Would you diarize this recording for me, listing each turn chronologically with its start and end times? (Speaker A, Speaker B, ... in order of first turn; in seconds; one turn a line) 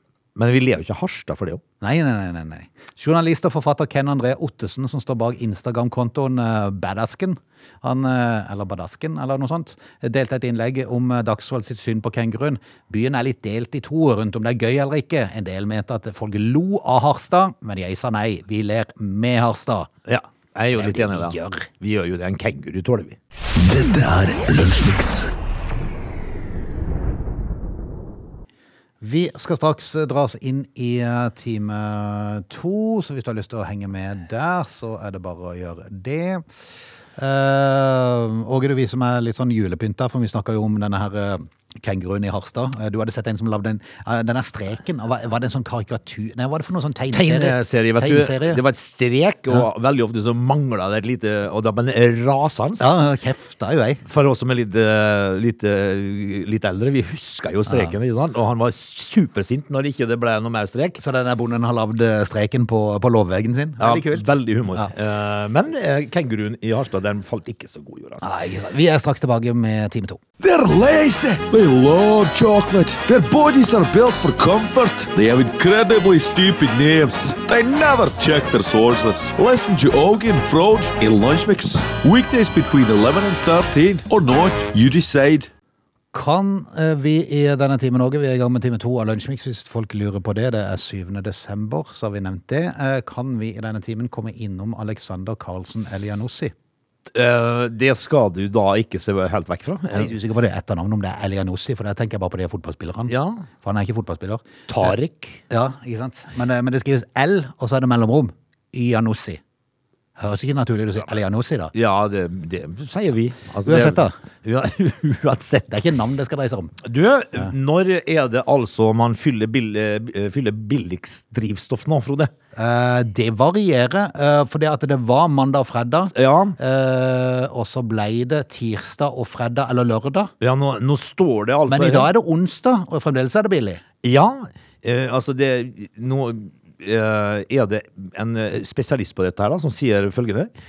Speaker A: 0.4-1.6
Speaker B: 1.8-19.9
Speaker A: 20.1-23.2
Speaker B: 20.7-21.7
Speaker C: 23.5-25.3
Speaker B: 29.0-36.4
Speaker B: 37.1-48.6
Speaker A: 47.1-52.9
Speaker B: 52.8-54.0
Speaker A: 54.0-61.0
Speaker B: 57.7-57.9
Speaker B: 61.0-64.9
Speaker A: 63.8-68.2
Speaker B: 68.2-70.2
Speaker C: 70.4-85.5
Speaker B: 86.1-96.5
Speaker A: 97.1-100.1
Speaker B: 99.9-104.9
Speaker A: 103.1-103.5
Speaker A: 104.7-105.4
Speaker B: 105.5-109.4
Speaker B: 110.2-111.7
Speaker A: 111.7-115.9
Speaker B: 113.7-114.2
Speaker B: 115.7-116.8
Speaker A: 116.8-122.3
Speaker B: 122.5-130.3
Speaker A: 126.1-126.6
Speaker A: 130.4-132.1
Speaker B: 131.7-133.8
Speaker A: 134.0-140.5